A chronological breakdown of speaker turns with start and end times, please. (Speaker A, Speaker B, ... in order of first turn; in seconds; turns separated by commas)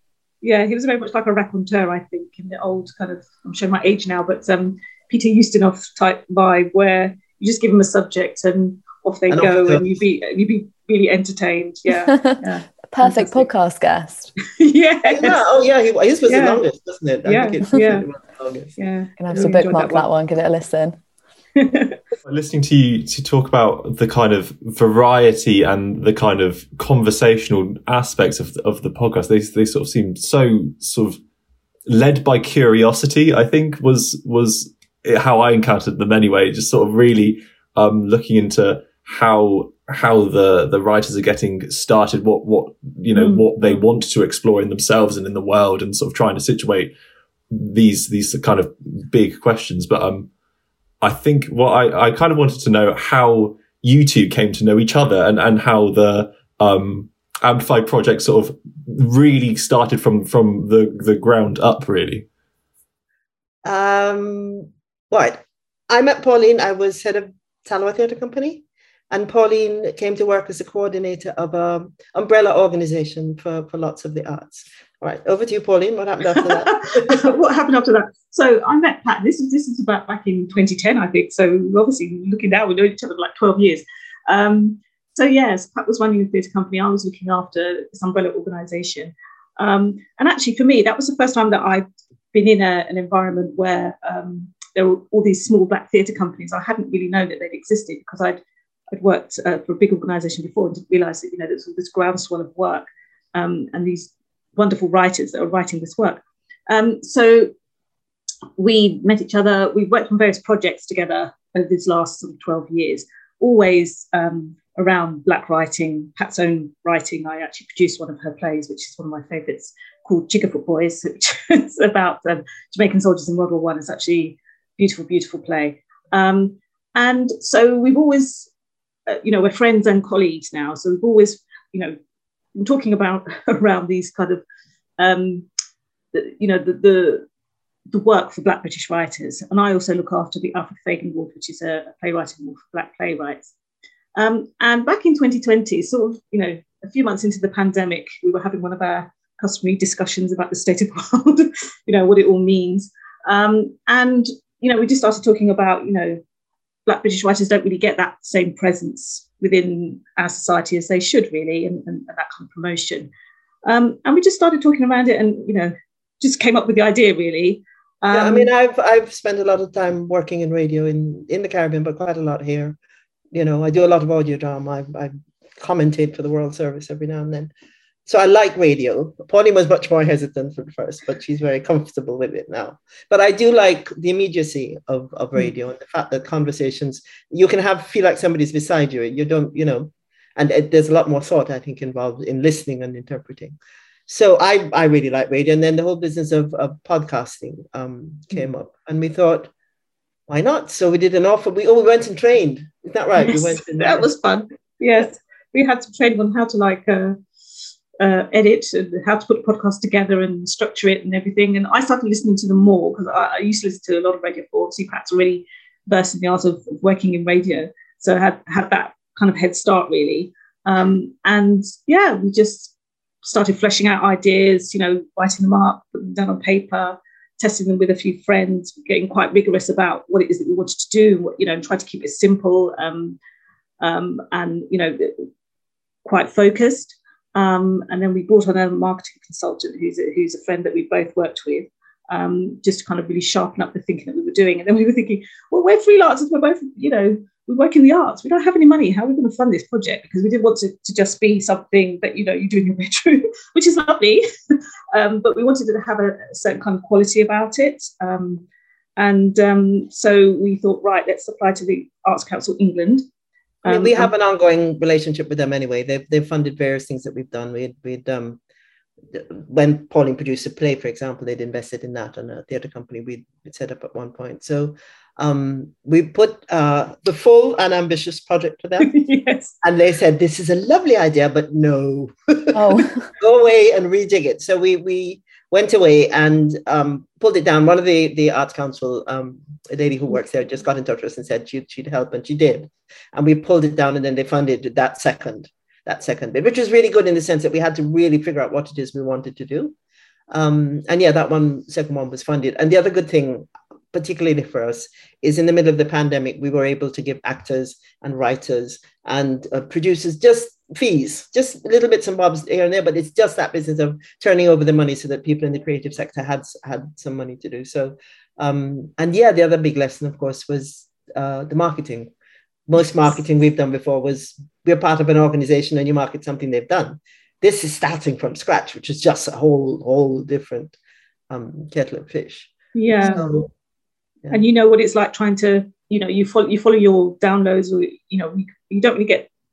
Speaker A: 0.4-13.5, Speaker B: 9.3-10.0, Speaker C: 12.1-14.3, Speaker A: 14.6-15.4, Speaker B: 15.0-18.7, Speaker A: 16.3-16.6, Speaker A: 17.2-18.1, Speaker A: 18.8-20.1, Speaker C: 19.2-21.0, Speaker A: 21.6-22.0, Speaker D: 22.2-31.2, Speaker D: 31.9-46.9, Speaker A: 43.1-43.8, Speaker D: 47.5-50.3, Speaker D: 51.0-62.3, Speaker B: 63.6-77.3, Speaker A: 76.3-98.4, Speaker A: 98.9-107.5, Speaker A: 108.6-128.5, Speaker A: 129.1-131.9, Speaker A: 132.6-134.4, Speaker A: 135.0-135.5, Speaker A: 136.1-137.2, Speaker A: 137.9-143.5, Speaker A: 144.2-156.2, Speaker A: 156.9-163.1, Speaker A: 163.6-168.5, Speaker B: 168.1-172.8, Speaker B: 173.3-177.5, Speaker B: 178.1-193.6, Speaker B: 194.1-199.5, Speaker B: 200.3-204.1, Speaker A: 203.2-207.2, Speaker A: 208.0-233.2, Speaker A: 233.8-235.2, Speaker A: 236.0-254.2, Speaker A: 254.9-258.4, Speaker A: 259.0-263.0, Speaker A: 263.6-264.1, Speaker B: 263.6-268.4, Speaker B: 269.1-278.9, Speaker A: 278.8-279.5, Speaker B: 279.6-299.7, Speaker C: 282.5-283.1, Speaker B: 300.3-322.1, Speaker B: 322.7-330.8, Speaker B: 331.3-332.5, Speaker A: 332.7-333.4, Speaker B: 333.0-333.5, Speaker A: 334.3-339.3